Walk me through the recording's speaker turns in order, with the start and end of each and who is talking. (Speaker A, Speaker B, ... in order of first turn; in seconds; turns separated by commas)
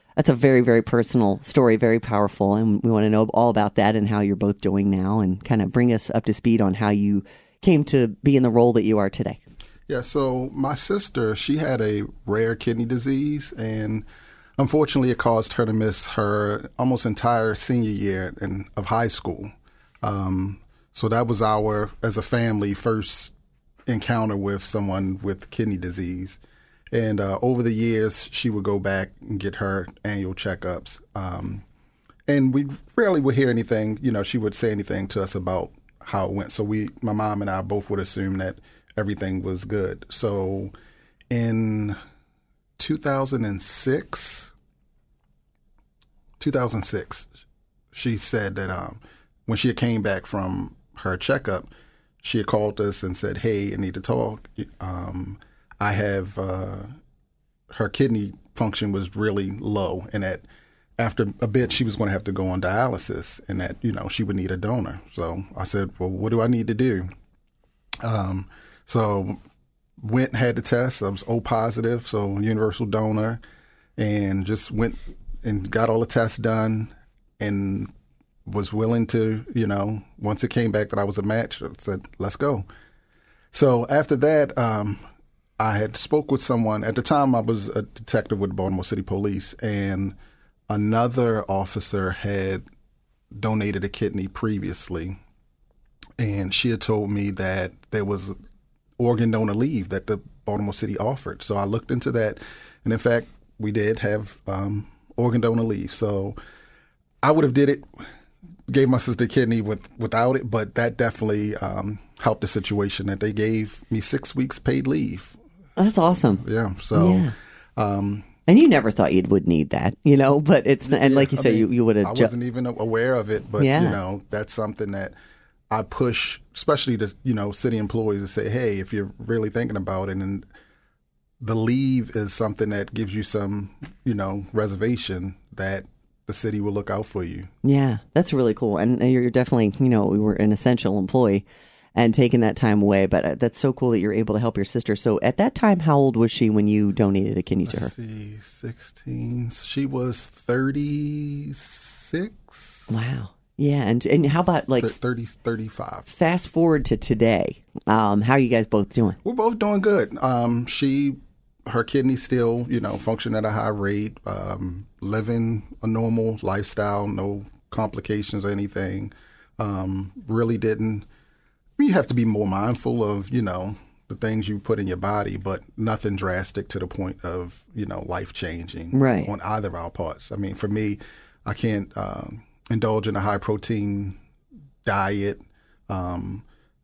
Speaker A: 0.2-9.4, Speaker B: 9.9-14.1, Speaker B: 14.6-23.3, Speaker B: 23.9-26.4, Speaker B: 26.9-31.6, Speaker B: 32.3-40.7, Speaker B: 41.3-42.0, Speaker B: 42.8-44.5, Speaker B: 46.4-47.3, Speaker B: 47.9-51.7, Speaker B: 52.2-56.9, Speaker B: 57.7-60.5, Speaker B: 61.0-67.1, Speaker B: 68.0-69.4, Speaker B: 70.0-73.4, Speaker B: 74.0-77.9, Speaker B: 78.5-82.7, Speaker B: 83.5-85.0, Speaker B: 85.6-90.2, Speaker B: 90.7-92.7, Speaker B: 93.3-95.2, Speaker B: 96.2-98.4, Speaker B: 99.0-106.4, Speaker B: 107.2-108.0, Speaker B: 108.7-115.4, Speaker A: 115.8-117.3, Speaker B: 116.4-118.3, Speaker A: 118.5-122.3, Speaker B: 120.9-125.2, Speaker A: 123.6-124.0, Speaker B: 125.7-130.5, Speaker B: 131.4-137.5, Speaker A: 137.6-141.4, Speaker A: 141.9-147.9, Speaker B: 147.7-152.9, Speaker A: 152.9-154.9, Speaker B: 154.8-156.1, Speaker A: 156.1-159.2, Speaker B: 159.2-171.1, Speaker B: 171.8-184.2, Speaker A: 178.9-179.3, Speaker B: 184.8-186.4